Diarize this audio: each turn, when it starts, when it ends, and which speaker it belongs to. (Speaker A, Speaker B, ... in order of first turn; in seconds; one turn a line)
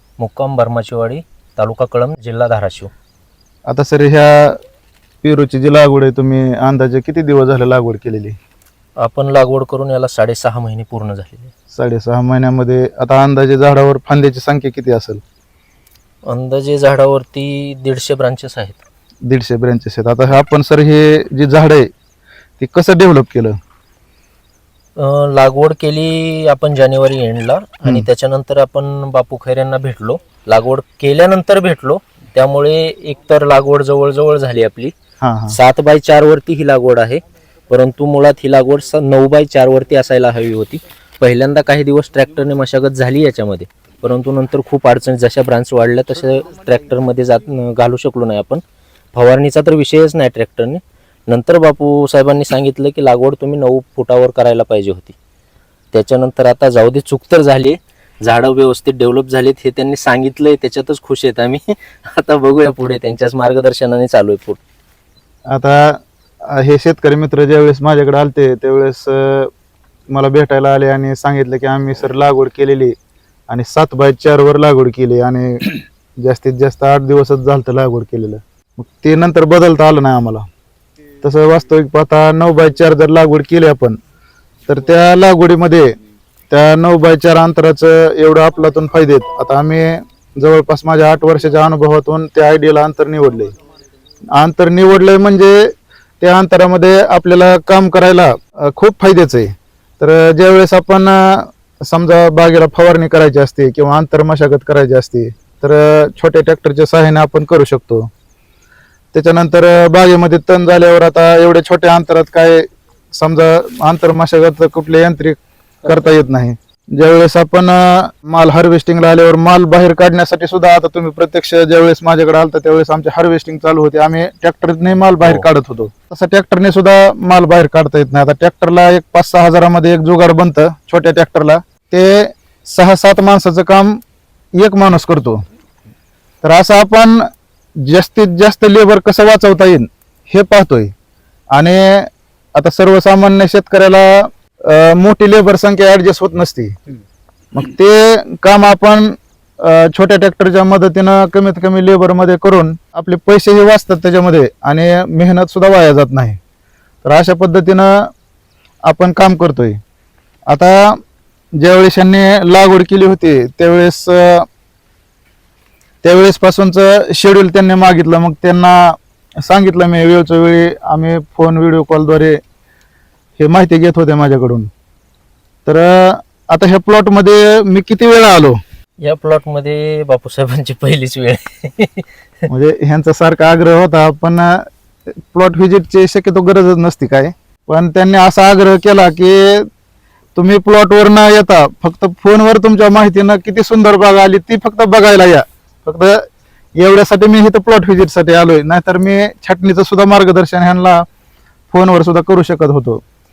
Speaker A: 0.2-2.9
Speaker B: 3.7-4.6
Speaker B: 5.2-8.4
Speaker A: 9.0-11.5
Speaker B: 11.7-15.2
Speaker A: 16.2-18.8
Speaker B: 19.3-21.9
Speaker B: 22.6-23.6
Speaker A: 25.0-34.9
Speaker B: 35.2-35.6
Speaker A: 35.5-48.6
Speaker A: 49.1-55.2
Speaker A: 55.9-64.6
Speaker B: 65.5-69.5
Speaker B: 70.1-72.9
Speaker B: 73.5-80.4
Speaker B: 81.2-84.0
Speaker B: 84.7-85.9
Speaker B: 86.5-93.5
Speaker B: 94.3-108.1
Speaker B: 109.1-112.7
Speaker B: 113.2-134.0
Speaker A: 125.2-125.5
Speaker B: 134.6-135.4
Speaker B: 136.4-137.3
Speaker B: 137.8-140.9
Speaker B: 141.5-146.8
Speaker B: 147.5-156.4
Speaker B: 157.0-158.1
Speaker B: 158.9-159.8
Speaker B: 160.5-161.0
Speaker B: 161.6-164.5
Speaker B: 166.0-172.4
Speaker B: 173.4-174.7
Speaker B: 175.7-178.6
Speaker A: 179.0-182.1
Speaker B: 182.5-184.7
Speaker B: 185.3-189.7
Speaker B: 190.3-196.2
Speaker B: 196.8-201.1
Speaker B: 201.7-203.0